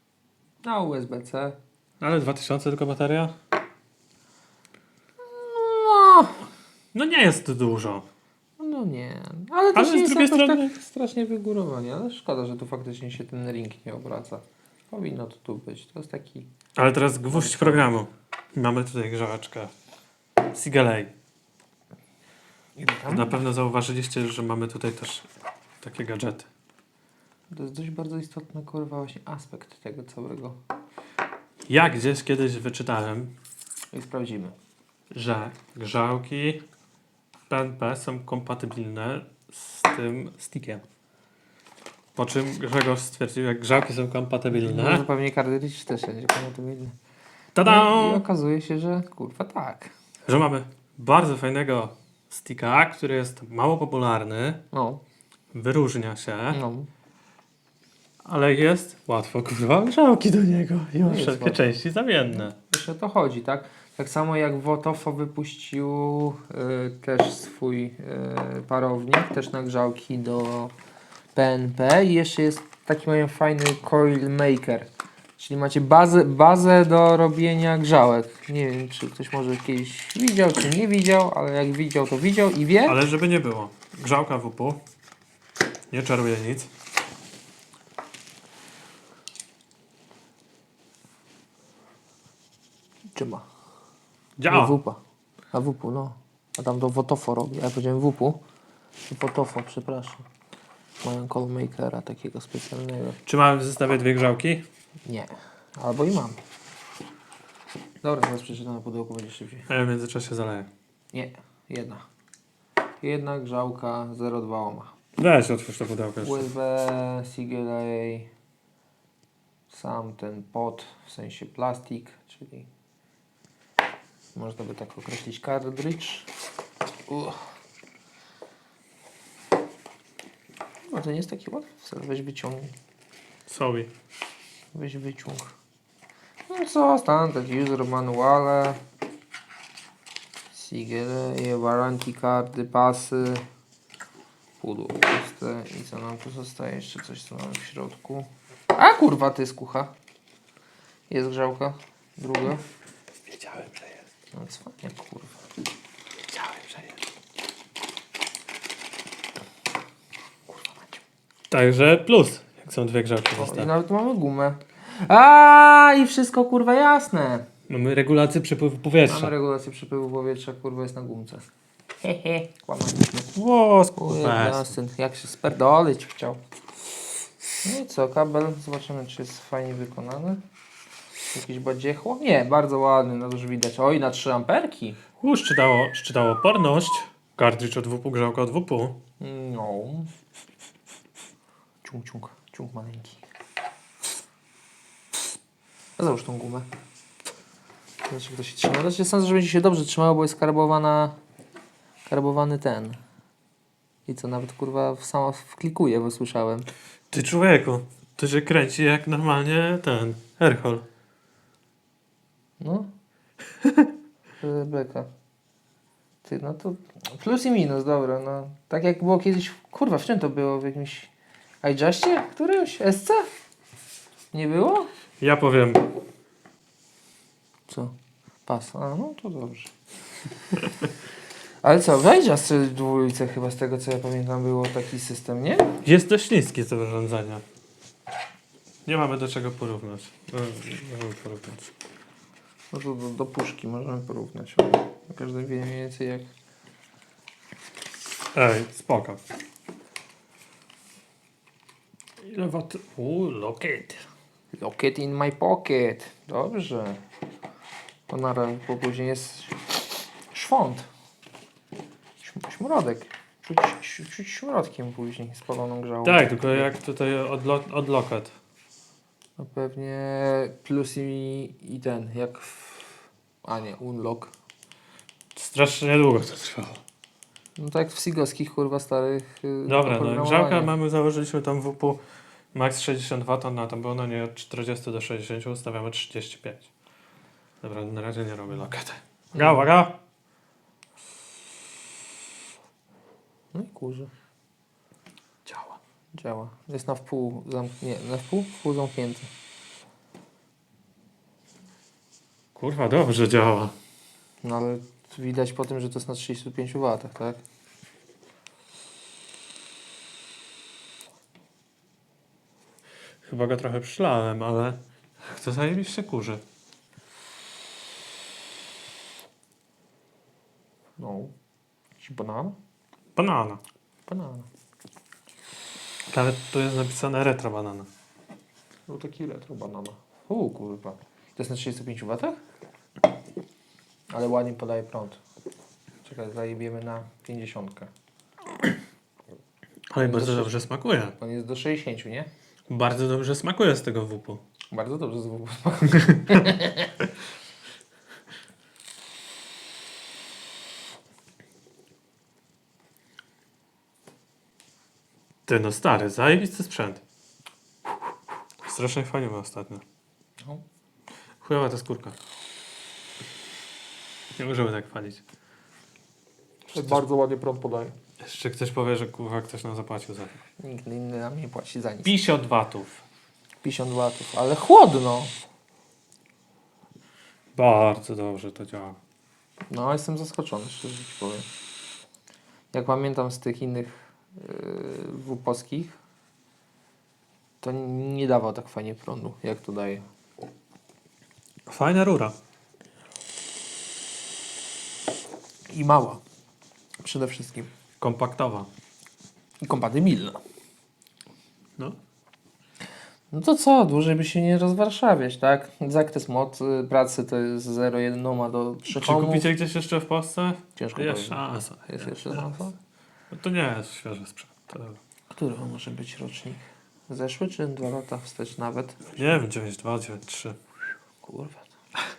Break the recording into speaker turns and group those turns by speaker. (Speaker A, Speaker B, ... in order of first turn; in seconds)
Speaker A: 0.6-1.6, 5.2-6.5, 8.6-16.5, 17.3-17.9, 22.8-23.4, 27.5-30.6, 33.9-34.5, 44.5-46.9, 47.6-49.9, 54.7-55.0, 56.5-56.9, 61.0-61.6, 62.5-70.7, 71.3-83.0, 93.1-93.4, 94.5-95.0, 95.5-98.4, 99.0-100.2, 101.0-103.2, 105.0-106.4, 108.0-109.7, 111.1-112.0, 113.0-114.9, 116.2-118.3, 119.7-122.7, 124.3-126.3, 127.1-127.4, 130.9-132.7, 134.7-135.5, 136.5-138.8, 140.5-143.4, 144.6-149.9, 151.1-152.6, 154.3-155.3, 160.5-161.0, 163.4-167.4, 169.1-171.4, 172.0-173.3, 174.0-176.4, 177.6-180.4, 181.3-185.0, 189.2-190.1, 191.8-193.2, 196.0-196.7, 198.1-201.1, 202.1-203.0, 204.1-206.7, 212.6-212.9, 214.4-215.1, 216.2-221.1, 221.6-223.3, 224.3-224.9, 227.7-227.9, 228.4-229.7, 231.6-235.7, 242.7-246.3, 254.5-257.0, 258.1-259.6, 260.3-260.9, 262.2-266.7, 269.4-274.3, 277.6-280.7, 289.3-289.7, 293.5-294.1, 296.1-299.3, 304.4-307.4, 321.0-321.3, 322.0-322.5, 324.1-324.5, 328.9-332.4, 334.1-335.2, 336.0-337.9, 340.0-342.3, 344.7-346.9, 366.7-367.9, 370.6-372.1, 373.6-375.3, 379.7-381.5, 382.7-385.9, 387.6-390.0, 395.7-396.2, 397.0-397.7, 399.6-400.4, 403.3-409.5, 410.8-412.7, 415.3-419.3, 421.2-421.7
Speaker B: 2.0-3.3, 6.9-8.0, 9.7-10.7, 16.8-19.7, 20.5-21.1, 23.0-25.2, 25.8-26.5, 31.7-33.3, 35.1-36.6, 37.5-40.8, 42.1-45.0, 47.5-48.2, 50.2-54.6, 55.5-56.6, 58.2-62.5, 82.8-84.8, 85.9-86.7, 94.4-94.8, 103.2-104.6, 109.7-110.7, 115.2-116.5, 133.5-133.9, 153.3-153.9, 156.4-156.8, 161.5-163.7, 167.7-169.3, 173.3-174.7, 185.2-189.0, 207.1-210.8, 225.2-225.9, 235.8-237.4, 238.8-241.7, 248.3-249.2, 252.2-254.0, 266.0-268.3, 275.4-276.8, 279.6-282.0, 282.5-286.7, 287.6-289.9, 295.5-295.8, 302.5-303.7, 313.2-316.4, 323.1-323.6, 326.1-327.9, 339.9-341.1, 342.7-344.4, 355.5-357.0, 358.6-359.8, 361.4-362.2, 364.4-365.2, 366.7-367.0, 368.2-370.4, 372.0-373.0, 377.5-379.0, 391.7-392.3, 398.0-398.7, 408.9-412.5, 413.3-415.0, 419.1-420.6